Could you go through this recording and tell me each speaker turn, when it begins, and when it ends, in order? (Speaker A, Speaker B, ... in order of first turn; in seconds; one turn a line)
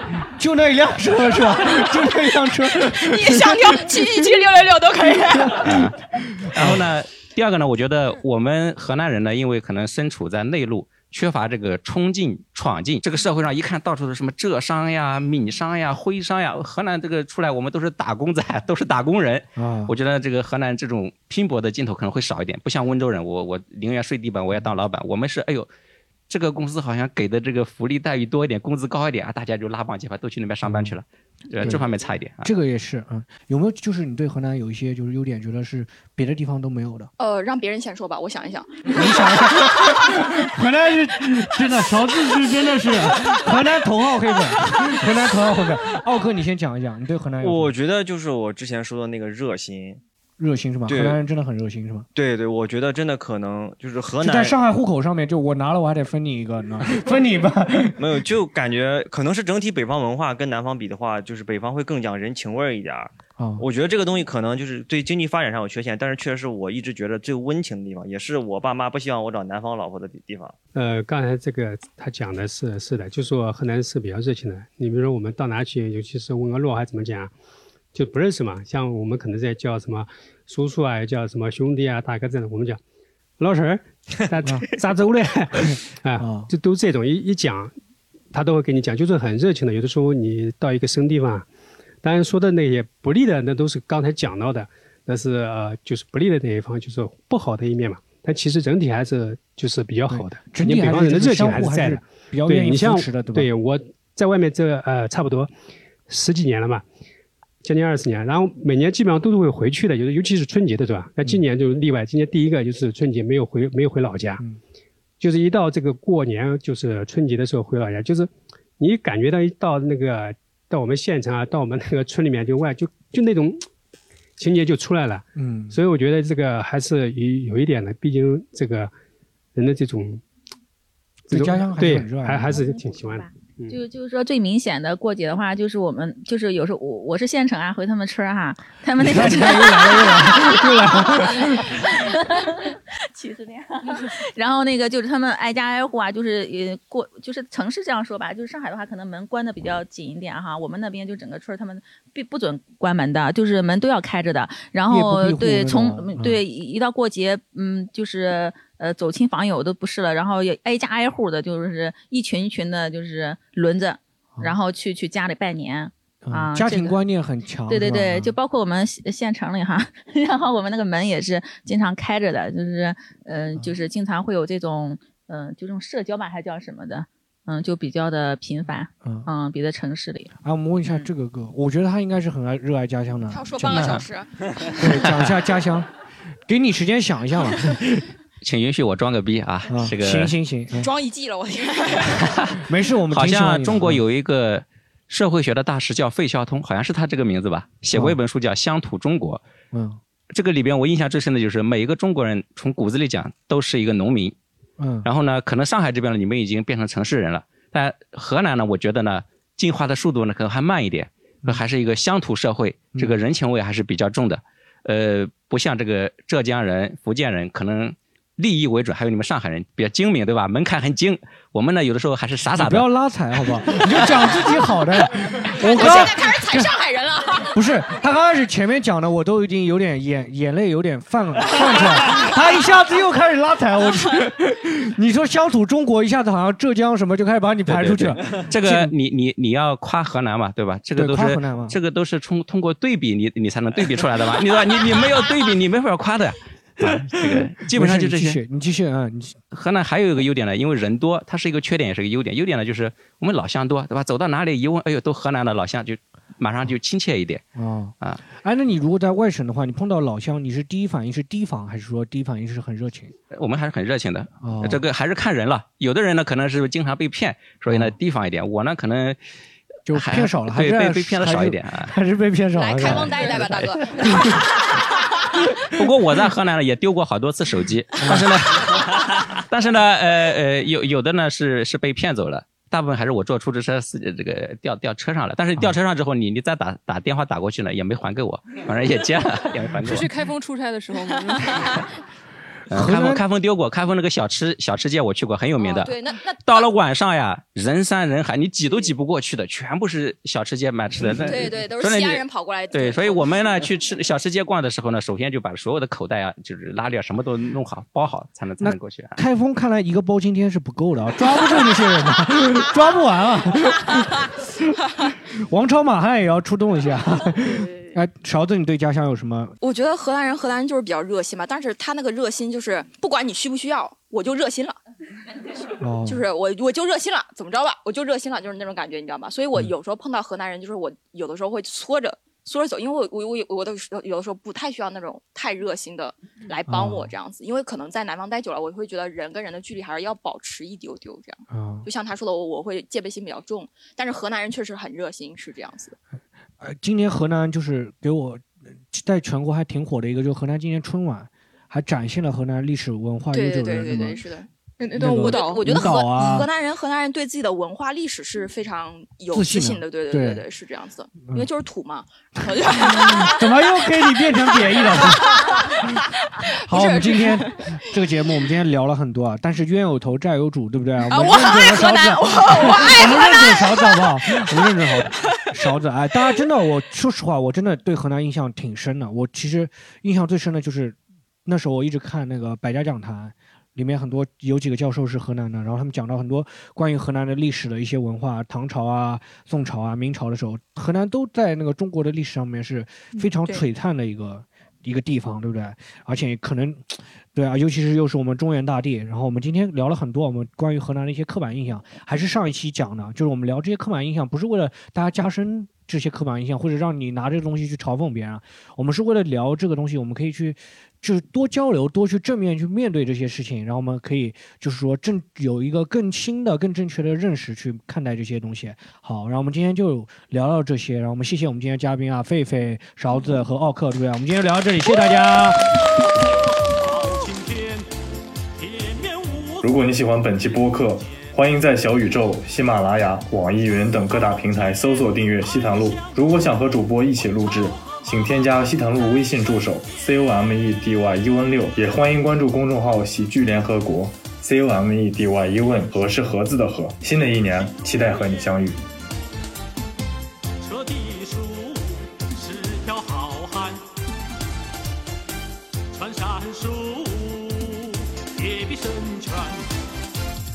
Speaker A: 0.2-4.2
Speaker B: 2.8-5.7
Speaker A: 5.3-6.8
Speaker C: 5.6-6.0
Speaker C: 6.5-25.7
Speaker A: 19.6-19.9
Speaker C: 26.3-32.5
Speaker A: 30.6-30.9
Speaker A: 31.6-31.9
Speaker A: 32.4-37.1
Speaker B: 37.2-39.1
Speaker A: 38.9-47.7
Speaker D: 47.4-50.0
Speaker A: 50.4-52.0
Speaker D: 50.9-51.2
Speaker D: 52.1-54.5
Speaker A: 54.2-58.0
Speaker D: 58.0-70.5
Speaker A: 63.4-63.6
Speaker E: 70.7-77.3
Speaker E: 77.9-82.8
Speaker E: 83.4-87.7
Speaker A: 86.2-86.5
Speaker E: 88.3-91.5
Speaker E: 92.0-105.5
Speaker A: 100.1-103.5
Speaker E: 106.1-106.8
Speaker E: 107.6-114.4
Speaker E: 115.2-123.7
Speaker E: 124.4-128.9
Speaker A: 125.3-125.8
Speaker E: 129.6-130.2
Speaker E: 131.3-133.8
Speaker A: 131.3-132.7
Speaker F: 132.4-167.0
Speaker A: 139.0-142.0
Speaker A: 154.9-156.4
Speaker A: 166.2-168.3
Speaker F: 167.7-180.3
Speaker A: 179.0-179.3
Speaker A: 180.4-184.1
Speaker B: 183.3-185.0
Speaker A: 184.7-185.9
Speaker A: 186.5-188.1
Speaker C: 188.4-190.3
Speaker A: 189.7-190.9
Speaker B: 190.7-192.4
Speaker A: 192.6-194.0
Speaker C: 193.1-199.4
Speaker A: 197.9-198.2
Speaker A: 199.7-200.0
Speaker C: 200.3-204.3
Speaker A: 204.8-205.1
Speaker C: 205.0-222.9
Speaker A: 222.6-226.7
Speaker B: 225.5-227.5
Speaker A: 227.5-238.9
Speaker C: 237.7-248.4
Speaker A: 240.9-241.8
Speaker A: 246.8-249.4
Speaker C: 249.5-257.4
Speaker A: 257.6-263.1
Speaker C: 263.3-269.2
Speaker A: 264.4-264.8
Speaker A: 267.7-267.9
Speaker A: 269.9-273.3
Speaker C: 269.9-271.9
Speaker B: 272.5-274.9
Speaker C: 272.8-273.7
Speaker A: 274.0-274.4
Speaker C: 275.7-290.1
Speaker A: 278.0-278.3
Speaker G: 289.8-291.7
Speaker C: 292.7-295.9
Speaker A: 292.7-293.2
Speaker B: 295.6-296.7
Speaker C: 296.4-309.2
Speaker B: 301.2-303.3
Speaker A: 308.6-319.6
Speaker B: 319.6-324.8
Speaker A: 325.8-326.2
Speaker B: 326.1-345.9
Speaker A: 336.7-337.1
Speaker A: 341.5-341.9
Speaker A: 346.6-354.2
Speaker B: 353.3-363.7
Speaker G: 354.8-355.7
Speaker A: 355.0-356.5
Speaker A: 359.3-360.4
Speaker A: 362.4-366.0
Speaker B: 364.2-367.7
Speaker A: 366.6-425.7
Speaker B: 371.1-374.4
Speaker H: 426.2-427.9
Speaker H: 428.5-441.5
Speaker I: 429.6-448.8
Speaker H: 445.7-446.2
Speaker H: 447.1-448.8
Speaker H: 450.6-453.8
Speaker H: 455.9-459.6